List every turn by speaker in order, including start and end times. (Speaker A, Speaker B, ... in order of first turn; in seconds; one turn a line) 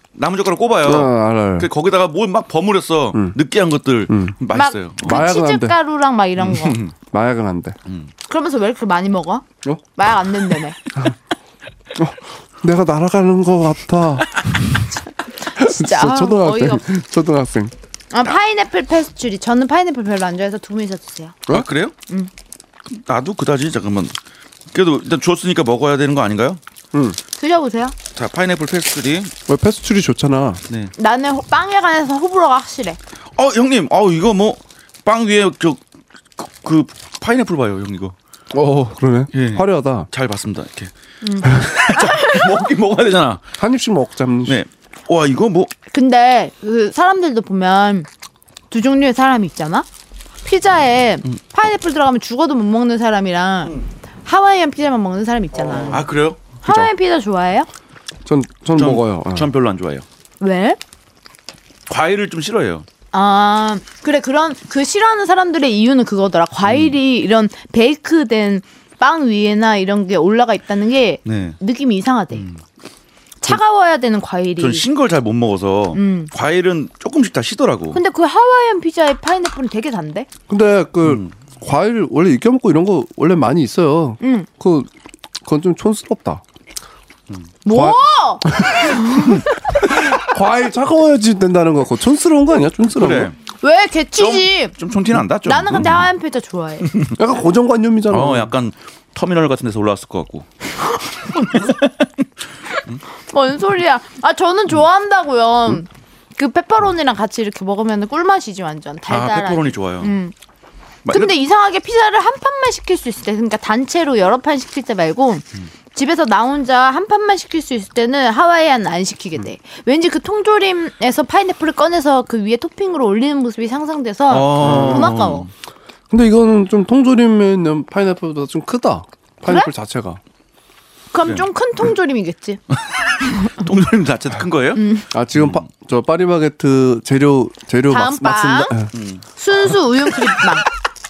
Speaker A: 0.2-5.2
Speaker B: 0.8-1.7
Speaker B: 4.1-4.3
Speaker C: 4.5-6.8
Speaker B: 5.0-5.8
Speaker A: 6.4-6.9
Speaker B: 7.1-7.8
Speaker C: 8.3-10.8
Speaker B: 12.0-14.7
Speaker C: 15.5-16.8
Speaker B: 15.6-17.7
Speaker C: 18.1-21.4
Speaker A: 21.5-21.9
Speaker A: 22.9-24.1
Speaker A: 24.7-26.6
Speaker C: 27.4-28.0
Speaker A: 28.1-29.3
Speaker B: 29.5-30.6
Speaker C: 31.0-33.0
Speaker A: 33.4-35.8
Speaker A: 36.4-38.1
Speaker B: 38.5-40.1
Speaker A: 39.3-40.9
Speaker C: 41.2-42.5
Speaker A: 41.4-43.4
Speaker B: 43.6-44.6
Speaker A: 44.5-45.7
Speaker C: 45.9-48.1
Speaker C: 48.7-49.9
Speaker C: 50.4-56.1
Speaker A: 55.8-56.4
Speaker C: 56.6-57.7
Speaker B: 56.6-56.9
Speaker B: 58.2-59.5
Speaker A: 58.8-60.0
Speaker C: 60.4-60.8
Speaker A: 61.9-62.9
Speaker C: 63.1-72.5
Speaker A: 66.7-67.0
Speaker A: 71.2-71.6
Speaker A: 72.3-72.6
Speaker C: 73.4-74.8
Speaker A: 74.6-78.0
Speaker C: 76.0-76.3
Speaker C: 77.9-80.3
Speaker B: 80.5-84.9
Speaker A: 81.0-81.3
Speaker C: 84.2-84.5
Speaker B: 85.4-86.4
Speaker C: 87.7-89.6
Speaker B: 87.7-93.3
Speaker A: 93.0-93.4
Speaker C: 93.6-94.8
Speaker A: 94.2-96.1
Speaker C: 95.5-96.9
Speaker A: 96.9-97.2
Speaker B: 97.2-98.5
Speaker A: 98.1-100.5
Speaker C: 101.3-101.7
Speaker A: 101.5-101.8
Speaker C: 103.3-110.3
Speaker A: 109.1-110.2
Speaker A: 111.0-111.3
Speaker C: 111.1-125.5
Speaker A: 124.3-125.5
Speaker B: 124.6-125.2
Speaker B: 126.1-130.2
Speaker C: 131.1-132.6
Speaker A: 133.4-134.8
Speaker C: 134.8-135.1
Speaker B: 135.1-138.9
Speaker A: 135.3-135.7
Speaker C: 137.9-138.8
Speaker A: 138.9-139.2
Speaker C: 139.4-140.7